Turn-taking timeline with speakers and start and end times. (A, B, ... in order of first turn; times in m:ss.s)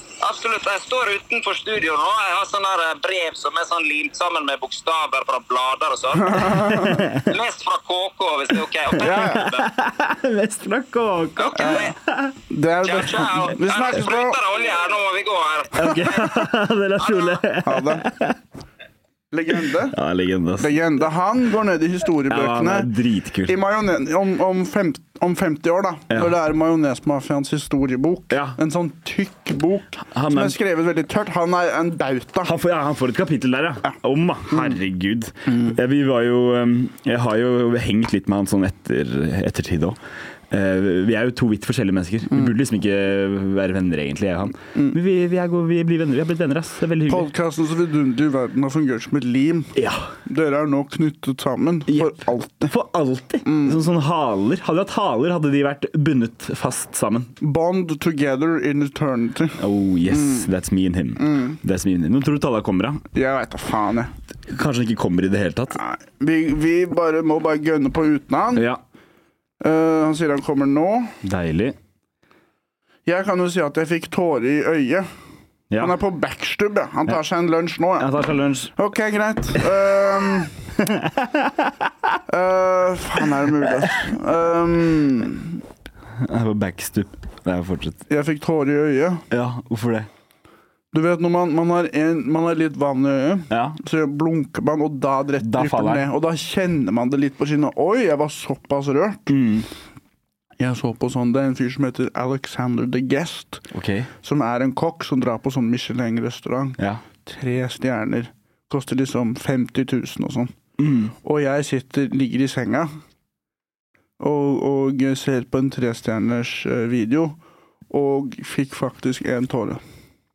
0:00.2-0:09.7 A
0:06.2-0:07.0 B
0:06.7-0:07.3 C
0:09.0-0:12.4 C
0:09.0-0:09.4 B
0:11.4-0:11.9 A
0:11.6-0:11.9 B
0:12.5-0:14.4 B
0:12.8-0:16.4 A
0:15.7-0:18.4 C
0:17.0-0:17.4 A
0:17.6-0:18.0 B
0:19.3-0:20.0 B
0:19.7-0:20.8 C
0:20.6-0:22.9 B
0:22.3-0:23.6 C
0:23.5-0:32.5 B
0:26.1-0:26.4 C
0:28.3-0:28.6 C
0:30.1-0:30.6 C
0:32.4-0:40.0 C
0:35.5-0:35.8 B
0:40.5-0:47.3 C
0:47.1-0:49.8 B
0:49.8-0:50.1 C
0:50.3-0:52.7 B
0:51.9-0:57.3 C
0:53.4-0:53.8 B
0:57.4-1:00.5 B
0:59.6-1:03.0 C
1:01.2-1:01.6 B
1:03.1-1:04.1 B
1:04.5-1:05.8 C
1:05.7-1:08.7 B
1:08.6-1:08.8 C
1:09.6-1:11.2 B
1:11.2-1:11.8 C
1:13.1-1:15.1 B
1:15.8-1:18.1 B
1:18.0-1:18.7 C
1:18.8-1:20.6 B
1:20.8-1:21.9 C
1:22.3-1:25.6 B
1:26.2-1:28.0 C
1:28.1-1:29.2 B
1:29.3-1:30.1 C
1:30.9-1:39.3 B
1:33.5-1:33.8 C
1:35.4-1:36.1 C
1:39.3-1:39.7 C
1:40.6-1:43.6 B
1:43.7-1:44.1 C
1:44.2-1:50.5 B
1:50.8-1:51.1 C
1:51.2-1:52.9 B
1:54.2-1:57.4 B
1:57.9-1:59.8 B